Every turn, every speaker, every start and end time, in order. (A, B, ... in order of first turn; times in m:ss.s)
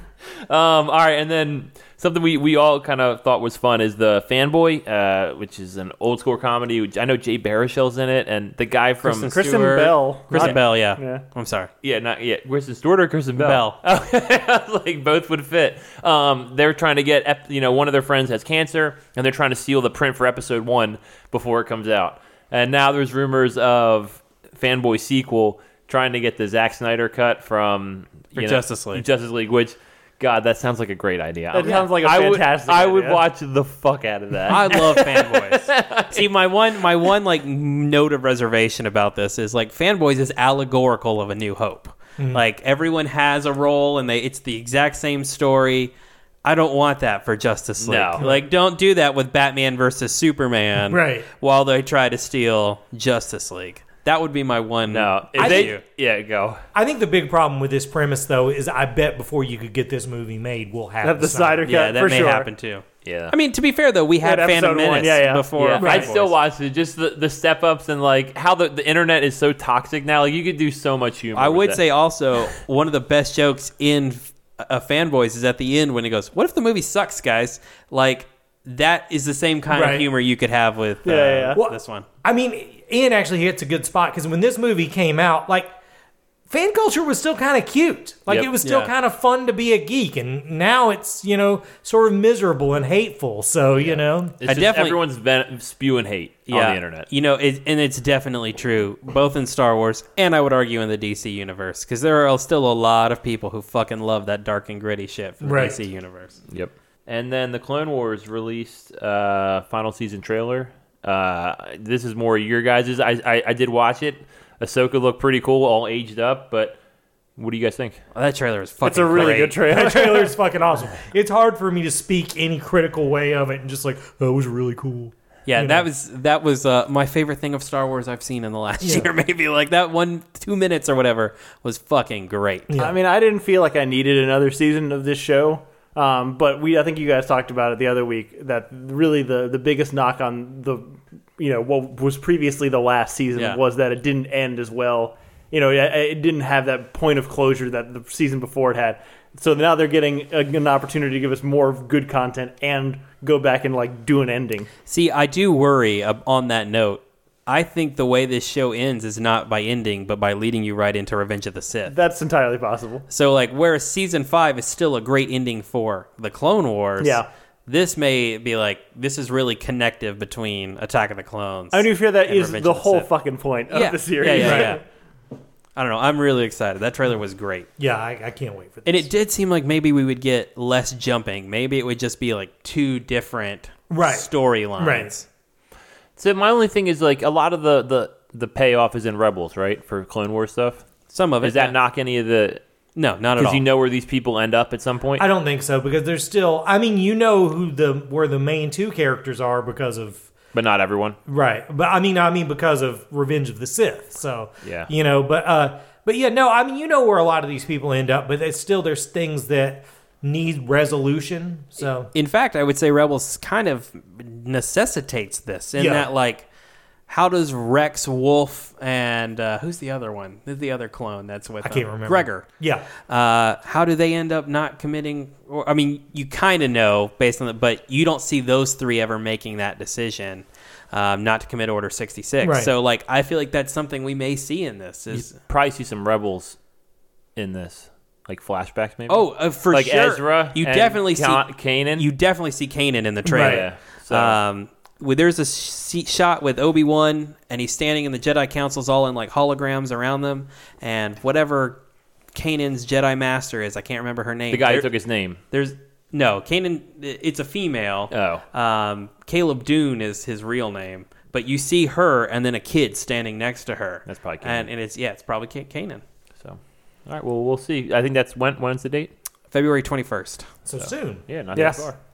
0:00.5-0:09.4 A
0:09.0-0:11.7 B
0:09.3-0:11.2 C
0:10.3-0:10.6 A
0:11.8-0:36.3 A
0:13.4-0:13.8 B
0:28.4-0:29.0 B
0:31.5-0:33.2 C
0:34.5-0:55.8 B
0:42.2-0:42.4 D
0:47.8-0:48.2 A
0:50.9-0:51.3 D
0:54.9-0:56.6 A
0:55.3-0:55.7 D
0:56.7-1:01.8 D
1:01.0-1:02.5 C
1:01.6-1:06.3 B
1:03.0-1:03.3 A
1:04.2-1:06.1 C
1:05.6-1:11.8 A
1:11.3-1:22.0 B
1:19.7-1:20.1 D
1:21.0-1:21.6 C
1:21.5-1:25.7 D
1:26.5-1:34.4 D
1:28.6-1:28.9 B
1:33.8-1:37.1 A
1:34.4-1:35.0 B
1:36.5-1:46.4 B
1:45.4-1:45.8 D
1:46.5-1:56.8 A
1:57.4-1:58.0 A
1:58.1-1:59.6 B
1:58.8-2:00.3 C
1:59.6-2:05.8 D
2:05.4-2:12.8 B
2:08.8-2:09.1 D
2:12.7-2:12.9 D
2:12.8-2:34.7 C
2:23.3-2:23.6 B
2:34.9-2:41.9 B
2:41.8-2:43.0 C
2:43.1-2:53.1 B
2:47.0-2:47.3 C
2:51.7-2:54.8 C
2:53.7-2:54.8 B
2:54.4-2:54.8 D
2:55.8-2:57.7 B
2:57.8-2:59.1 D
2:58.8-3:05.2 B
3:03.9-3:05.1 D
3:06.2-3:10.8 A
3:11.1-3:11.8 B
3:11.4-3:12.6 A
3:13.0-3:13.6 B
3:13.4-3:15.2 A
3:15.2-3:20.3 D
3:20.5-3:21.2 A
3:21.3-3:32.1 D
3:24.6-3:24.9 A
3:32.1-3:36.5 B
3:35.8-3:36.1 D
3:37.1-3:42.4 B
3:41.6-3:42.8 D
3:43.1-3:55.4 B
3:52.4-3:52.7 D
3:55.1-3:56.6 A
3:57.4-4:02.0 A
3:59.1-4:11.8 B
4:03.2-4:03.7 D
4:03.2-4:04.4 A
4:12.3-4:14.9 B
4:14.5-4:15.4 A
4:15.5-4:26.0 B
4:18.1-4:18.4 A
4:24.0-4:24.7 A
4:26.4-4:29.1 A
4:29.5-4:30.4 B
4:30.6-4:31.3 D
4:30.8-4:32.0 A
4:31.5-4:31.9 C